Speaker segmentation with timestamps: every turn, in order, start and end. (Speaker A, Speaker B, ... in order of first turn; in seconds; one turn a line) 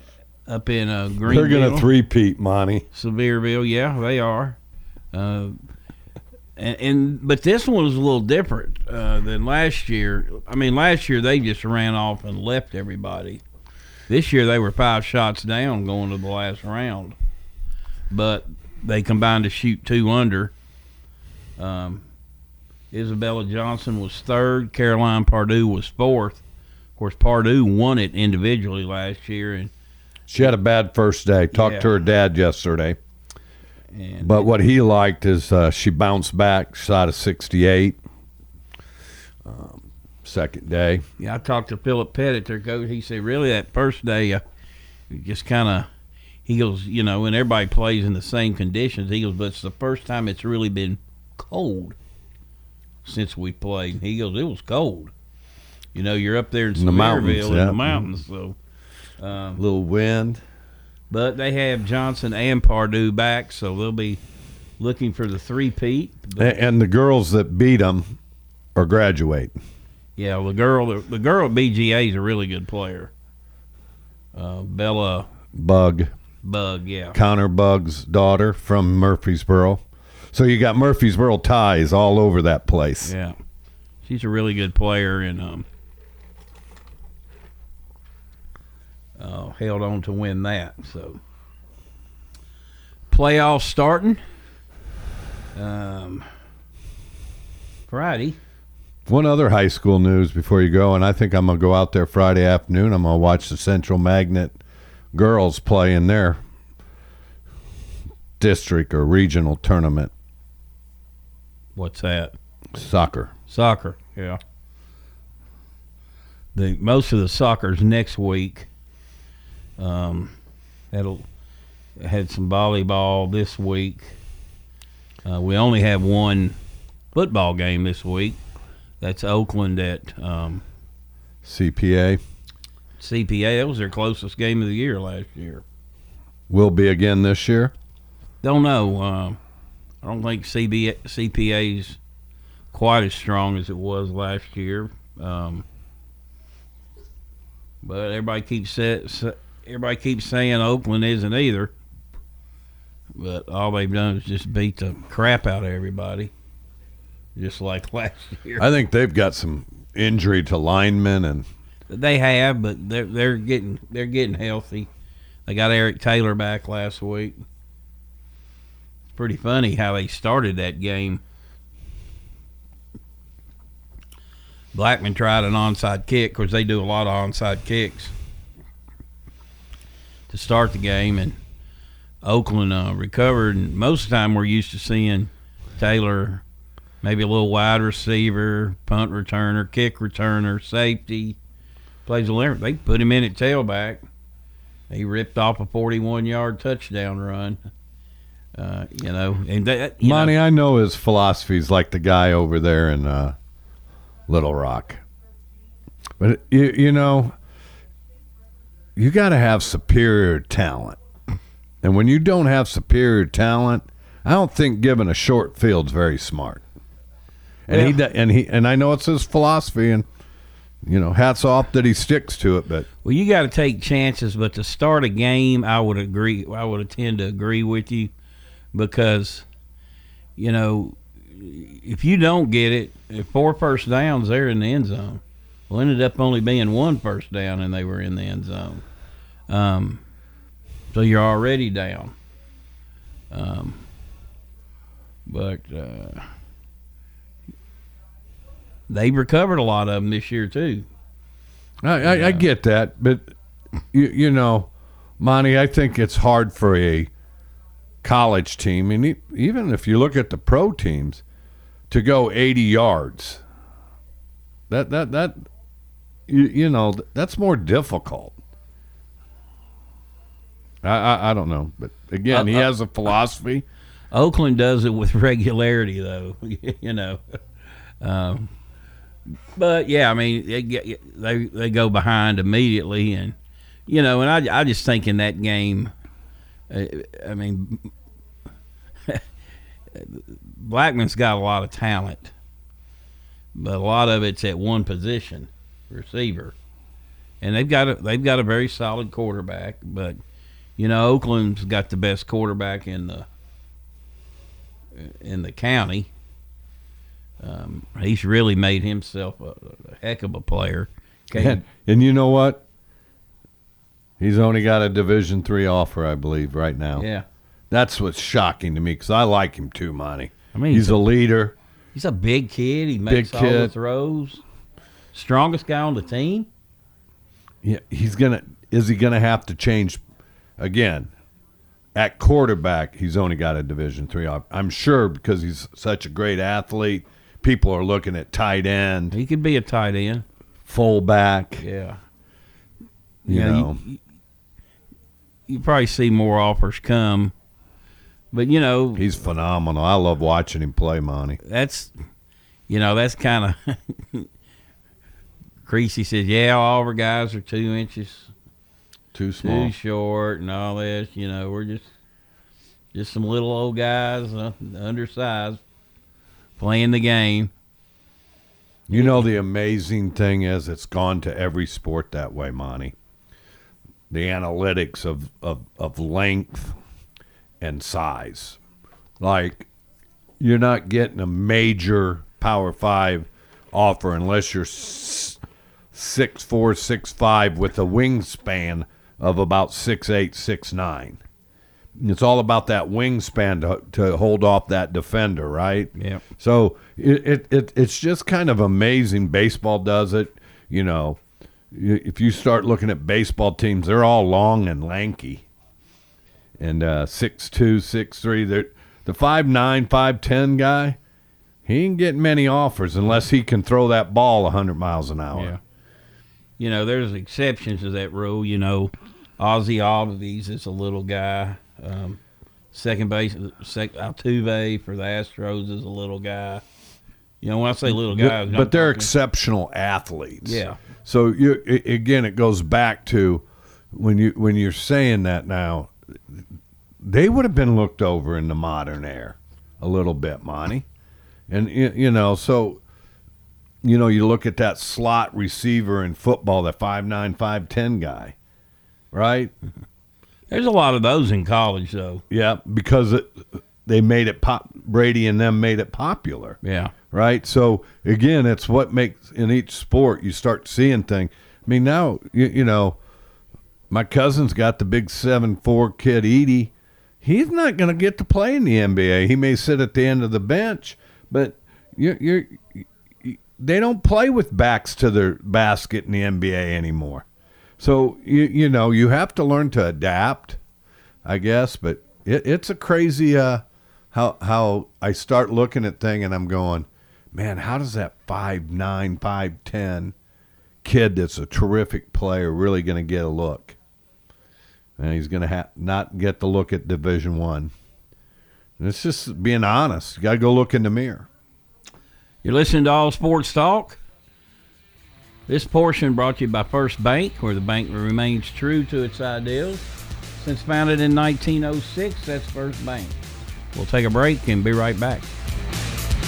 Speaker A: 0.5-1.9
Speaker B: 1.2-2.9
Speaker A: 2.9-4.6
Speaker A: 5.1-5.6
Speaker A: 6.6-13.4
Speaker A: 14.1-17.2
Speaker A: 18.1-20.5
Speaker A: 21.6-22.1
Speaker A: 22.9-26.4
Speaker A: 27.0-29.7
Speaker B: 30.3-33.0
Speaker A: 31.5-31.9
Speaker A: 33.9-34.5
Speaker B: 34.2-38.0
Speaker B: 39.4-41.0
Speaker A: 41.2-44.4
Speaker A: 45.1-45.9
Speaker A: 46.5-52.0
Speaker A: 53.0-55.1
Speaker A: 55.9-58.6
Speaker B: 56.8-58.1
Speaker A: 59.2-59.6
Speaker B: 59.6-60.4
Speaker A: 61.1-64.2
Speaker A: 64.8-66.5
Speaker B: 66.4-68.2
Speaker B: 68.8-69.6
Speaker A: 70.2-73.1
Speaker A: 74.3-75.3
Speaker B: 75.5-76.1
Speaker A: 76.4-77.2
Speaker B: 77.1-83.1
Speaker A: 83.0-83.4
Speaker A: 84.0-85.7
Speaker A: 89.2-91.2
Speaker A: 93.1-94.2
Speaker A: 95.5-96.3
Speaker A: 97.9-98.4
Speaker B: 99.1-104.6
Speaker B: 105.1-106.4
Speaker B: 108.4-110.1
Speaker A: 111.8-112.3
Speaker B: 112.7-113.3
Speaker A: 113.5-114.4
Speaker A: 116.5-118.7
Speaker A: 119.8-120.3
Speaker A: 120.9-121.2
Speaker A: 122.0-124.2
Speaker A: 125.2-126.6
Speaker A: 127.1-128.4
Speaker A: 129.0-130.6
Speaker B: 131.4-132.2
Speaker A: 133.0-135.6
Speaker B: 136.5-137.7
Speaker A: 138.4-139.4
Speaker A: 140.0-142.0
Speaker A: 142.7-145.7
Speaker A: 147.8-151.7
Speaker A: 153.2-156.3
Speaker A: 157.4-158.7
Speaker B: 158.6-161.5
Speaker A: 161.9-164.9
Speaker A: 165.5-167.4
Speaker A: 169.2-171.2
Speaker A: 174.7-178.1
Speaker A: 180.3-181.4
Speaker A: 182.2-186.4
Speaker A: 187.0-191.4
Speaker A: 192.1-194.0
Speaker A: 194.9-197.6
Speaker A: 198.6-200.4
Speaker B: 200.0-203.4
Speaker B: 204.3-205.0
Speaker B: 206.2-207.3
Speaker B: 209.0-211.0
Speaker B: 211.8-216.6
Speaker B: 217.7-220.1
Speaker A: 217.7-218.0
Speaker B: 220.8-222.9
Speaker A: 223.0-228.1
Speaker A: 228.7-229.5
Speaker A: 230.4-238.8
Speaker A: 239.5-240.0
Speaker A: 240.9-242.2
Speaker A: 243.3-243.8
Speaker A: 245.3-246.3
Speaker A: 248.9-250.9
Speaker B: 251.8-253.3
Speaker A: 252.0-252.5
Speaker B: 253.9-257.1
Speaker B: 258.0-261.2
Speaker B: 261.9-263.4
Speaker B: 264.7-265.5
Speaker B: 266.3-268.4
Speaker B: 270.8-273.7
Speaker A: 272.3-272.7
Speaker A: 274.1-277.2
Speaker A: 278.0-278.5
Speaker A: 279.6-283.4
Speaker A: 283.9-285.9
Speaker A: 286.7-287.9
Speaker A: 289.9-292.3
Speaker A: 293.6-296.6
Speaker A: 297.4-300.2
Speaker A: 300.8-303.3
Speaker A: 304.9-306.1
Speaker A: 307.4-311.6
Speaker B: 311.4-312.6
Speaker B: 314.2-317.1
Speaker A: 317.0-317.3
Speaker B: 317.7-321.6
Speaker A: 320.5-321.0
Speaker A: 321.9-324.4
Speaker B: 323.1-323.7
Speaker A: 325.1-326.5
Speaker B: 327.6-330.0
Speaker B: 330.6-331.1
Speaker B: 331.9-339.1
Speaker A: 339.1-340.2
Speaker B: 340.7-341.6
Speaker A: 341.6-342.0
Speaker B: 343.3-343.8
Speaker A: 343.3-344.0
Speaker A: 345.5-347.3
Speaker A: 348.3-349.1
Speaker B: 348.9-351.4
Speaker A: 351.4-351.9
Speaker A: 352.7-354.3
Speaker A: 355.7-358.3
Speaker B: 359.1-359.7
Speaker A: 359.4-361.9
Speaker A: 362.9-365.6
Speaker A: 366.6-367.5
Speaker B: 368.9-372.9
Speaker A: 368.9-369.3
Speaker B: 374.1-376.8
Speaker B: 377.6-378.6
Speaker B: 379.2-379.7
Speaker B: 380.4-385.4
Speaker B: 385.9-391.2
Speaker B: 392.0-401.2
Speaker A: 396.0-396.2
Speaker B: 401.7-405.5
Speaker B: 406.6-411.0
Speaker B: 411.6-415.6
Speaker A: 415.3-415.6
Speaker A: 416.6-422.2
Speaker A: 422.7-426.6
Speaker A: 427.4-429.1
Speaker B: 427.9-436.4
Speaker A: 430.4-430.8
Speaker B: 437.0-440.9
Speaker B: 441.5-442.8
Speaker B: 443.8-448.4
Speaker B: 449.1-449.5
Speaker A: 450.5-452.2
Speaker B: 452.3-456.6
Speaker A: 456.6-456.9
Speaker B: 457.1-463.0
Speaker B: 463.9-477.3
Speaker B: 477.8-480.6
Speaker B: 481.2-490.1
Speaker B: 490.8-493.8
Speaker B: 495.0-497.7
Speaker B: 498.8-501.3
Speaker A: 502.4-504.0
Speaker A: 505.5-509.9
Speaker A: 510.4-513.2
Speaker A: 513.8-515.3